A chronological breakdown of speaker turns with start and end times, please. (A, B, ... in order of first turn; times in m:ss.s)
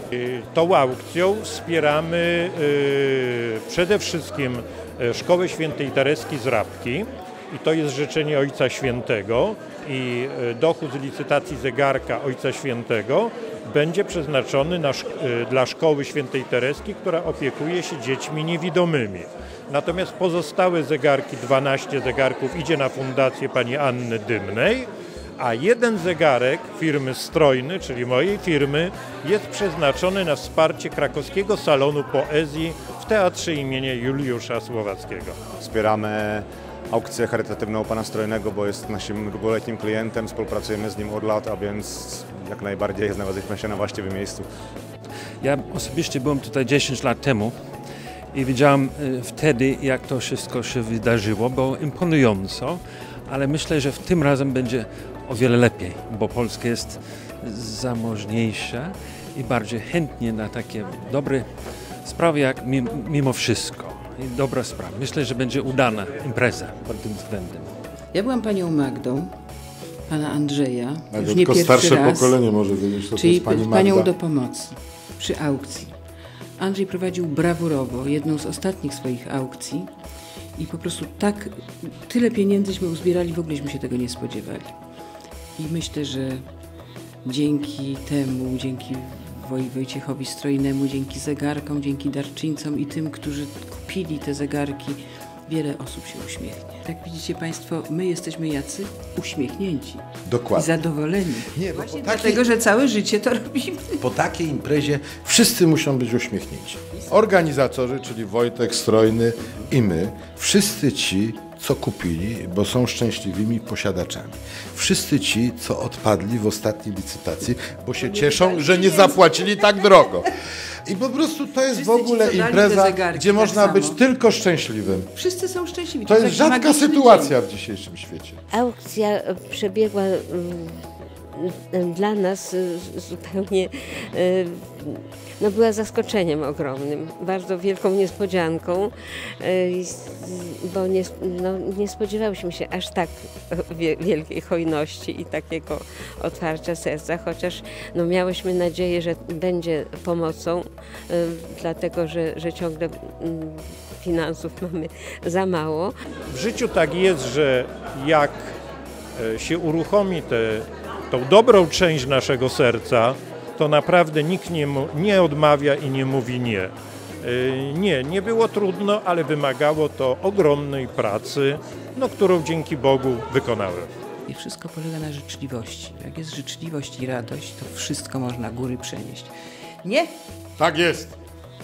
0:00.1-0:35.4 A
0:35.6-0:44.5 B
0:45.4-0:47.5 C
0:48.3-1:01.5 C
1:02.0-1:07.7 C
1:08.1-1:09.3 D
1:10.1-1:12.4 D
1:11.1-1:14.1 E
1:13.1-1:15.9 D
1:16.6-1:19.9 D
1:20.6-1:24.7 D
1:25.6-1:26.4 D
1:27.2-1:44.0 D
1:40.2-1:40.7 E
1:41.4-1:42.4 E
1:44.0-2:00.3 E
1:58.0-1:59.7 D
2:00.8-2:05.1 E
2:01.7-2:04.0 D
2:05.1-2:07.4 D
2:06.0-2:08.4 E
2:08.5-2:35.9 F
2:36.3-2:38.5 A
2:39.2-2:46.7 A
2:47.2-2:53.9 A
2:54.3-3:00.1 D
3:00.6-3:01.1 E